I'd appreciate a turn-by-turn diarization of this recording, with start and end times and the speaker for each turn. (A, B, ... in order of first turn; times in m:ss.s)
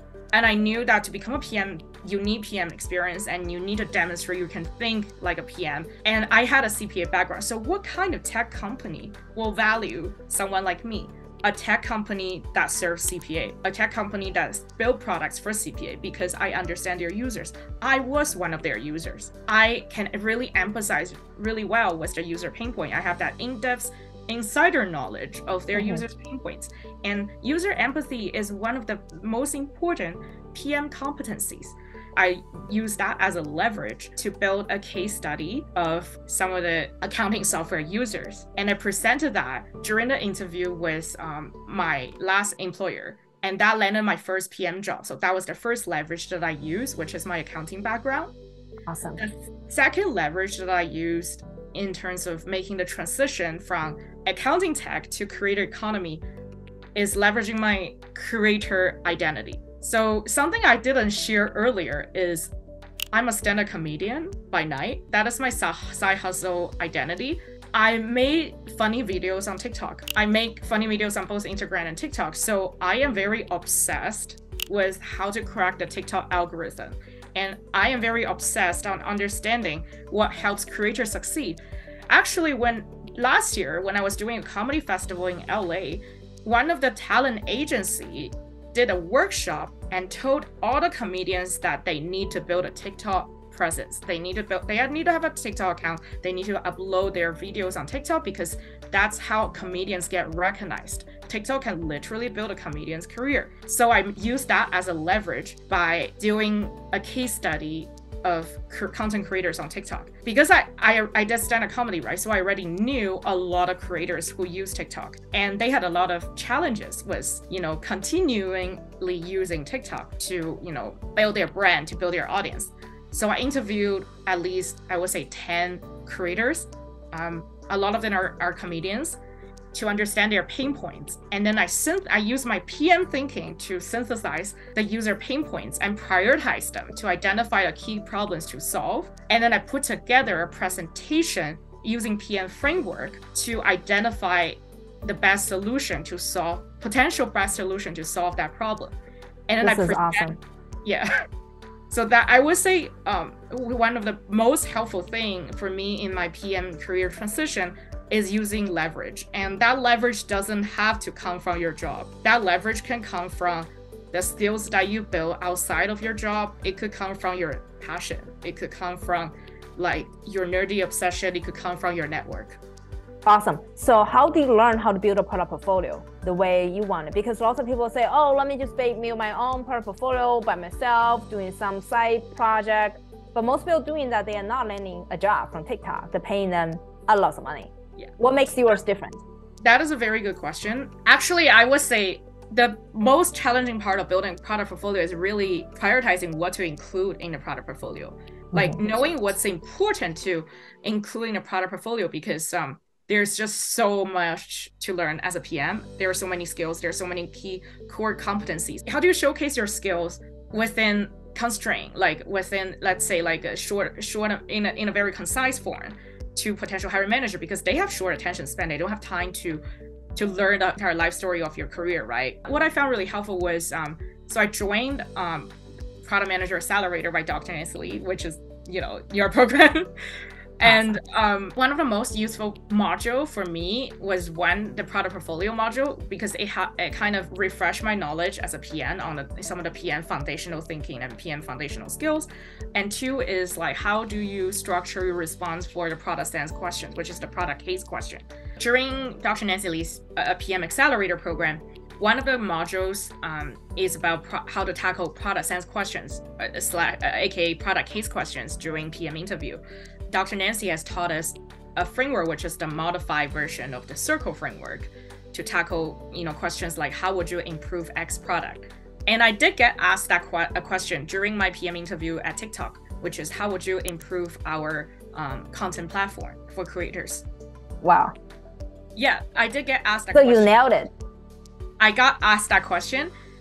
0:00.3-0:48.3 A
0:25.8-0:26.0 B
0:48.9-0:49.2 B
0:49.2-0:56.2 A
0:57.0-1:02.5 A
1:03.1-2:09.2 A
2:09.7-2:29.0 A
2:29.5-2:30.3 A
2:29.6-2:30.4 B
2:31.9-2:52.6 A
2:53.3-3:09.2 B
3:09.6-3:39.6 A
3:18.5-3:18.8 B
3:40.2-3:49.9 A
3:50.6-4:37.2 A
3:50.6-3:51.0 B
4:37.8-4:38.1 B
4:39.0-4:40.5 A
4:40.1-4:40.9 B
4:41.8-4:43.1 A